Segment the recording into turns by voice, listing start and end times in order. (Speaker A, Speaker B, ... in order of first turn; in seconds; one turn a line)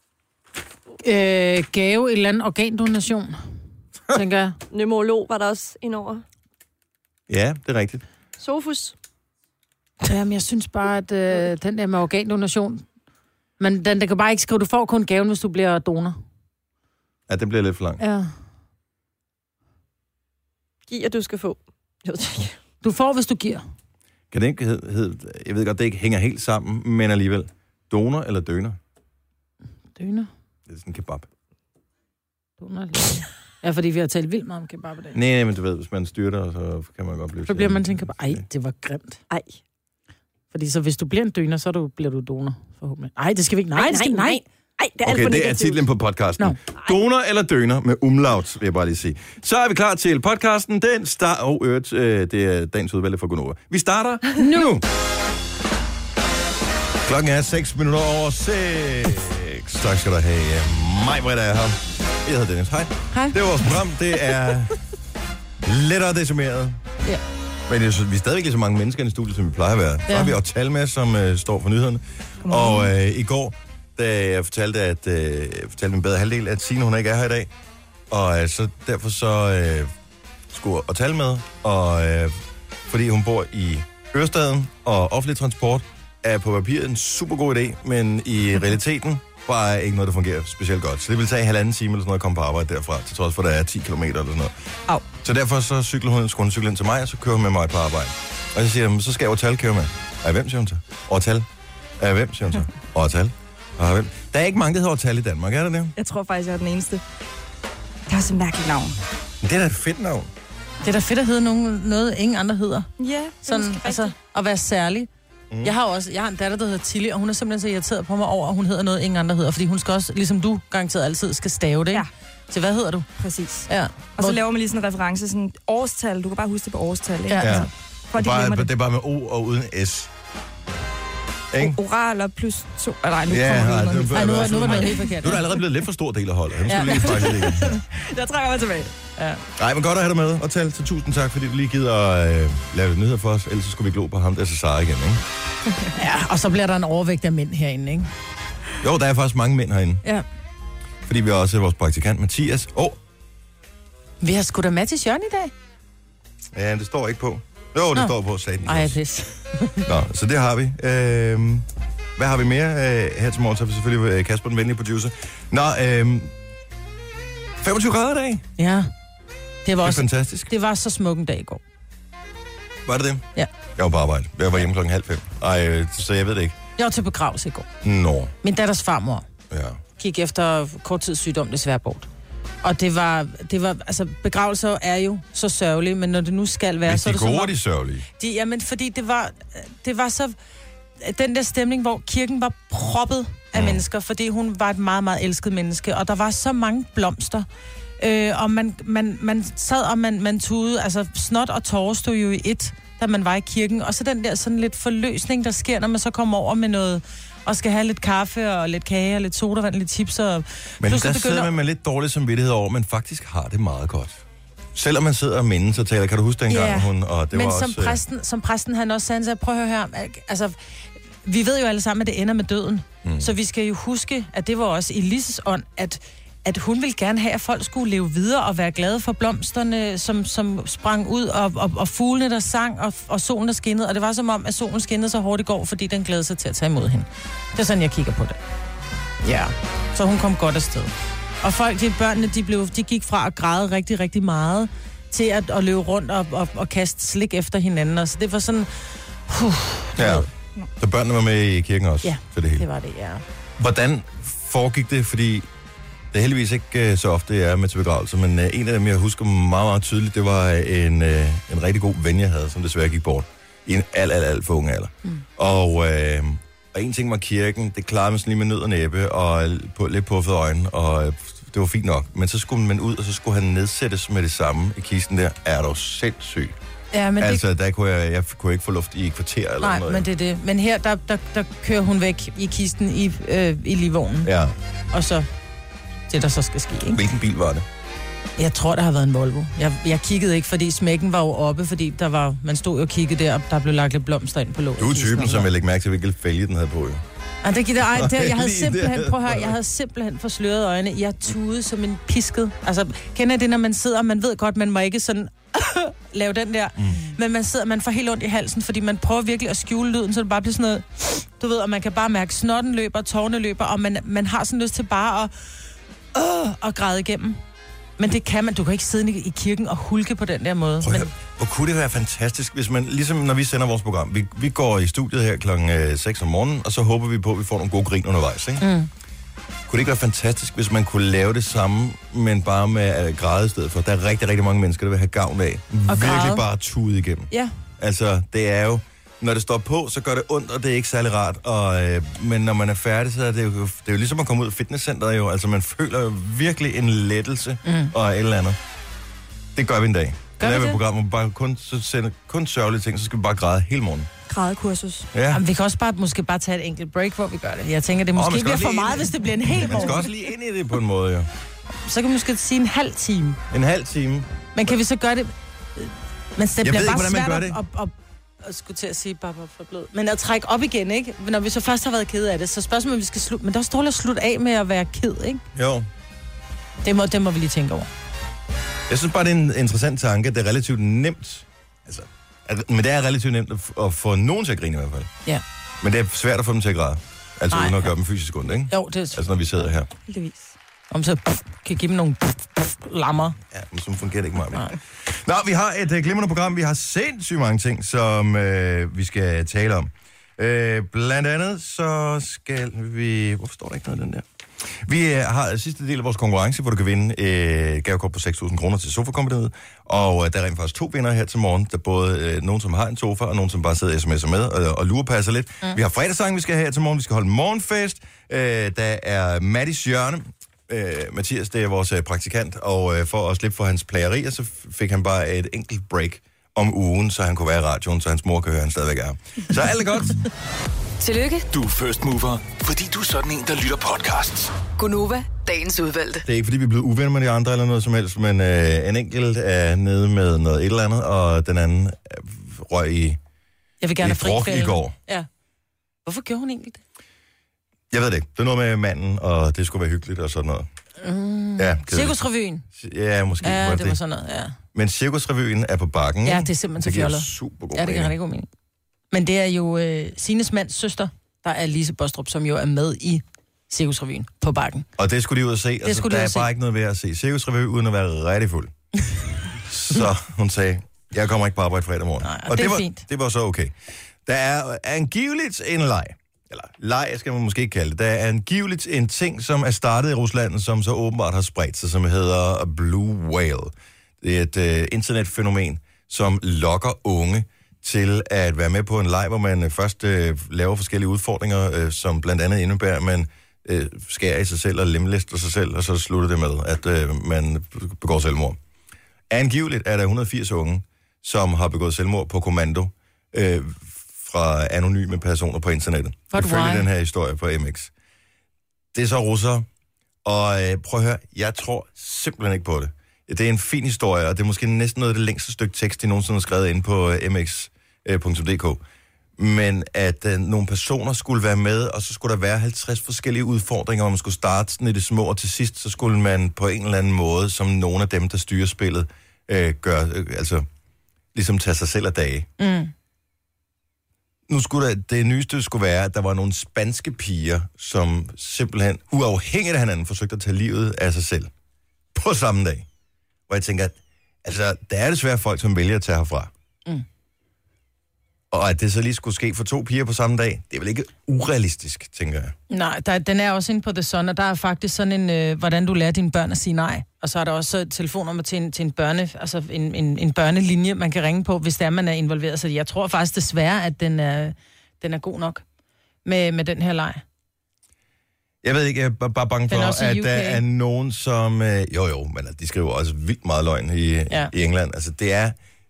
Speaker A: 1.0-3.3
Speaker A: 4.1-4.6
Speaker B: 4.7-6.2
Speaker C: 7.3-8.0
Speaker B: 8.4-8.9
Speaker A: 10.0-12.8
Speaker A: 13.6-16.1
Speaker C: 17.3-18.0
Speaker A: 18.0-18.3
Speaker B: 20.9-22.5
Speaker A: 22.8-23.6
Speaker C: 24.3-28.8
Speaker A: 30.0-30.3
Speaker C: 30.7-31.3
Speaker A: 32.6-35.2
Speaker C: 35.1-38.4
Speaker A: 37.5-39.2
Speaker A: 40.5-44.4
Speaker B: 43.8-45.4
Speaker C: 45.0-54.8
Speaker A: 54.4-54.7
Speaker C: 57.0-64.8
Speaker A: 63.1-63.4
Speaker C: 65.6-66.8
Speaker C: 67.7-77.5
Speaker A: 70.1-70.3
Speaker C: 78.1-79.9
Speaker C: 80.5-82.3
Speaker C: 82.8-94.5
Speaker C: 95.2-101.5
Speaker C: 102.0-105.9
Speaker D: 106.0-107.0
Speaker D: 108.1-109.0
Speaker C: 109.4-110.3
Speaker A: 110.8-112.9
Speaker D: 113.0-114.1
Speaker A: 113.4-115.1
Speaker A: 115.6-123.1
Speaker D: 123.2-128.7
Speaker A: 123.7-124.4
Speaker A: 127.3-127.7
Speaker C: 127.4-130.1
Speaker C: 131.5-131.8
Speaker D: 131.6-135.4
Speaker C: 133.3-137.8
Speaker A: 134.1-135.6
Speaker A: 136.7-137.4
Speaker D: 136.7-138.9
Speaker C: 139.6-145.2
Speaker A: 145.9-148.1
Speaker C: 148.8-150.0
Speaker C: 151.0-153.0
Speaker A: 154.2-155.5
Speaker C: 156.5-158.9
Speaker A: 158.6-159.9
Speaker C: 159.8-161.6
Speaker C: 162.2-166.3
Speaker C: 167.6-168.4
Speaker A: 168.6-168.9
Speaker A: 169.6-171.6
Speaker C: 169.8-170.5
Speaker C: 172.8-173.2
Speaker C: 173.8-176.6
Speaker A: 176.8-177.7
Speaker C: 177.8-178.3
Speaker A: 178.4-179.2
Speaker C: 179.5-179.8
Speaker A: 180.0-182.1
Speaker A: 182.6-187.5
Speaker C: 186.8-188.1
Speaker A: 188.2-190.3
Speaker A: 191.0-197.4
Speaker C: 193.5-193.8
Speaker A: 198.0-211.5
Speaker C: 210.8-214.2
Speaker C: 214.7-218.0
Speaker A: 216.5-220.5
Speaker A: 221.2-238.4
Speaker C: 223.0-223.3
Speaker A: 239.2-248.7
Speaker A: 249.3-250.3
Speaker C: 250.0-252.7
Speaker A: 252.0-253.2
Speaker C: 253.6-255.4
Speaker C: 256.1-276.6
Speaker A: 276.9-277.4
Speaker C: 277.2-280.1
Speaker A: 279.6-284.3
Speaker C: 284.2-284.5
Speaker A: 284.9-285.3
Speaker A: 286.1-287.0
Speaker C: 286.9-287.6
Speaker A: 288.4-295.5
Speaker C: 294.8-297.0
Speaker A: 297.4-315.3
Speaker C: 297.9-299.6
Speaker A: 316.1-317.4
Speaker A: 318.0-321.1
Speaker C: 320.8-328.6
Speaker A: 328.6-328.9
Speaker C: 329.7-348.6
Speaker A: 335.9-336.4
Speaker A: 347.6-347.9
Speaker C: 349.5-354.1
Speaker A: 350.4-350.8
Speaker D: 354.3-355.1
Speaker C: 355.1-355.4
Speaker A: 355.3-360.1
Speaker C: 358.1-361.3
Speaker A: 361.8-363.4
Speaker C: 363.5-364.8
Speaker A: 364.5-375.4
Speaker C: 366.6-367.6
Speaker C: 375.5-375.9
Speaker A: 376.8-377.9
Speaker C: 378.9-385.1
Speaker C: 385.8-389.9
Speaker A: 387.5-387.9
Speaker A: 388.7-389.2
Speaker D: 390.1-390.5
Speaker A: 390.9-393.4
Speaker C: 393.5-404.2
Speaker C: 404.8-430.2
Speaker E: 431.0-431.4
Speaker F: 431.5-434.6
Speaker E: 434.8-436.2
Speaker C: 436.2-443.2
Speaker A: 443.8-445.3
Speaker C: 444.0-444.9
Speaker A: 446.0-446.8
Speaker C: 447.9-450.7
Speaker A: 451.0-452.6
Speaker C: 451.6-452.2
Speaker C: 452.7-454.0
Speaker A: 453.4-454.6
Speaker C: 454.7-458.1
Speaker A: 456.2-458.5
Speaker A: 459.1-464.9
Speaker C: 465.0-468.7
Speaker A: 465.8-466.5
Speaker C: 469.6-473.7
Speaker A: 472.2-473.0
Speaker C: 474.2-498.6
Speaker C: 499.3-507.9
Speaker A: 506.3-506.9
Speaker C: 508.9-509.6
Speaker C: 510.2-518.8
Speaker C: 519.4-530.6
Speaker C: 531.3-532.5
Speaker A: 532.6-532.9
Speaker C: 534.5-541.5
Speaker C: 542.1-542.9
Speaker C: 543.5-546.5
Speaker C: 548.5-552.5
Speaker A: 552.7-565.6
Speaker A: 566.2-567.2
Speaker C: 568.6-575.5
Speaker A: 569.7-570.6